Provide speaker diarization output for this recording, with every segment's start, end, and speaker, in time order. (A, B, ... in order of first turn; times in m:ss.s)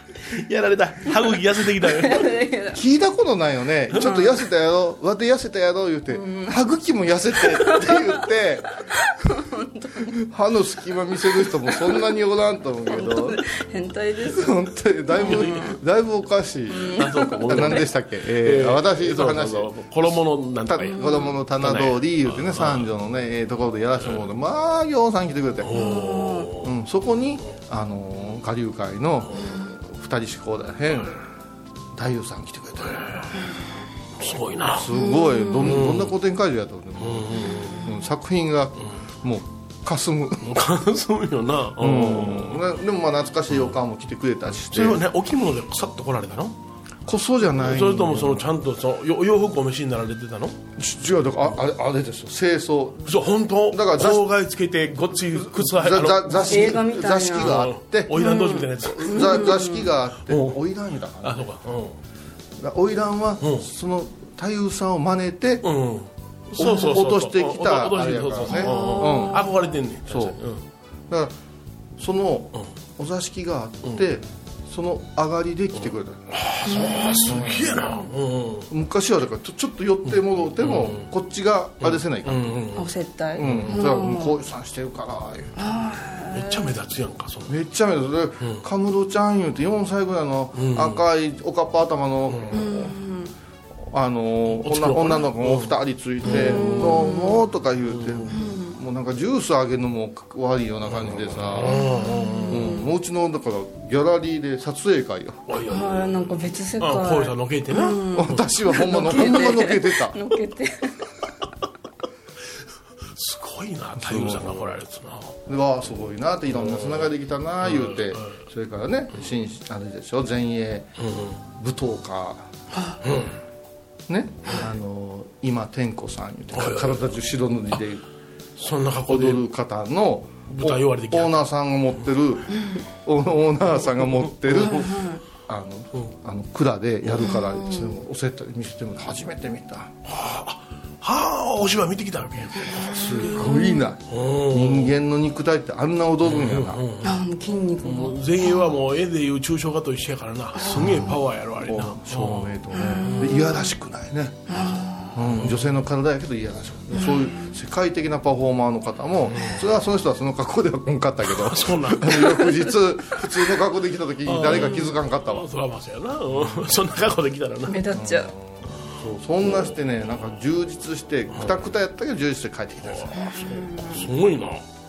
0:00.3-0:02.3 A
0:01.9-0:02.8 B
0:02.7-0:08.8 C
0:04.0-0:04.3 B
0:06.1-0:06.6 B
0:07.4-0:08.2 B
0:09.0-0:10.1 B
0:10.2-0:13.4 C
0:11.4-0:11.9 B
0:12.9-0:14.6 B
0:14.3-0:26.0 C
0:15.1-0:15.7 B
0:15.2-0:15.7 A
0:16.7-0:17.8 B
0:17.0-0:22.9 A
0:20.9-0:21.3 B
0:25.6-0:26.7 A
0:25.7-0:26.5 B
0:26.6-0:31.2 C
0:29.4-0:29.6 B
0:31.9-0:33.0 C
0:32.9-0:33.3 A
0:34.2-0:34.9 A
0:34.7-0:40.6 C
0:34.9-0:35.7 B
0:35.6-0:36.2 A
0:37.0-0:37.8 A
0:40.4-0:42.6 A
0:41.8-0:45.0 C
0:44.6-0:46.6 A
0:47.0-0:48.4 C
0:47.5-0:50.6 A
0:50.8-0:54.3 C
0:53.0-0:56.8 A
0:55.4-1:01.5 C
0:56.4-0:57.6 B
0:57.3-0:59.6 A
0:58.2-0:59.8 B
1:00.3-1:00.6 A
1:01.2-1:02.0 A
1:02.6-1:05.7 C
1:03.4-1:03.7 A
1:05.6-1:10.6 A
1:06.6-1:09.5 C
1:08.5-1:09.6 B
1:10.1-1:10.4 C
1:12.0-1:16.5 C
1:16.3-1:18.7 A
1:16.6-1:17.4 B
1:17.2-1:17.6 C
1:18.7-1:22.7 C
1:20.6-1:21.1 A
1:21.8-1:22.9 A
1:22.8-1:24.4 B
1:23.4-1:25.5 C
1:23.4-1:23.8 A
1:25.6-1:26.7 B
1:26.3-1:27.5 A
1:27.5-1:32.9 C
1:30.5-1:31.0 A
1:32.3-1:32.6 A
1:32.5-1:33.3 B
1:33.8-1:41.8 C
1:34.5-1:37.0 A
1:36.2-1:37.4 B
1:37.9-1:38.3 A
1:38.3-1:38.8 B
1:40.9-1:42.6 A
1:41.6-1:42.9 B
1:42.5-1:45.4 C
1:45.5-1:48.4 A
1:45.7-1:51.0 B
1:48.1-1:50.2 C
1:53.1-1:55.4 A
1:54.0-1:54.8 C
1:55.5-2:00.9 C
1:56.5-1:57.1 A
1:57.6-1:58.4 A
2:01.0-2:01.4 A
2:01.5-2:02.5 C
2:03.0-2:03.4 A
2:04.1-2:08.0 C
2:06.5-2:07.1 A
2:08.6-2:09.4 A
2:09.1-2:12.5 C
2:10.5-2:11.4 A
2:12.5-2:12.8 B
2:13.0-2:14.9 C
2:14.5-2:14.9 A
2:14.6-2:15.2 B
2:15.5-2:20.0 C
2:17.2-2:18.0 B
2:20.0-2:23.5 A
2:22.7-2:23.8 B
2:23.0-2:26.8 C
2:24.1-2:25.0 A
2:26.2-2:27.2 A
2:27.0-2:28.6 B
2:27.8-2:33.4 A
2:30.6-2:31.0 B
2:30.8-2:31.0 C
2:31.6-2:34.5 C
2:32.7-2:33.7 B
2:34.5-2:35.2 B
2:35.1-2:45.5 C
2:35.4-2:35.8 A
2:36.9-2:37.5 B
2:39.3-2:39.6 A
2:41.2-2:42.6 A
2:44.2-2:47.8 A
2:47.7-2:48.3 B
2:47.9-2:54.1 C
2:49.5-2:50.3 A
2:51.3-2:51.6 A
2:52.8-2:54.6 A
2:53.2-2:54.1 B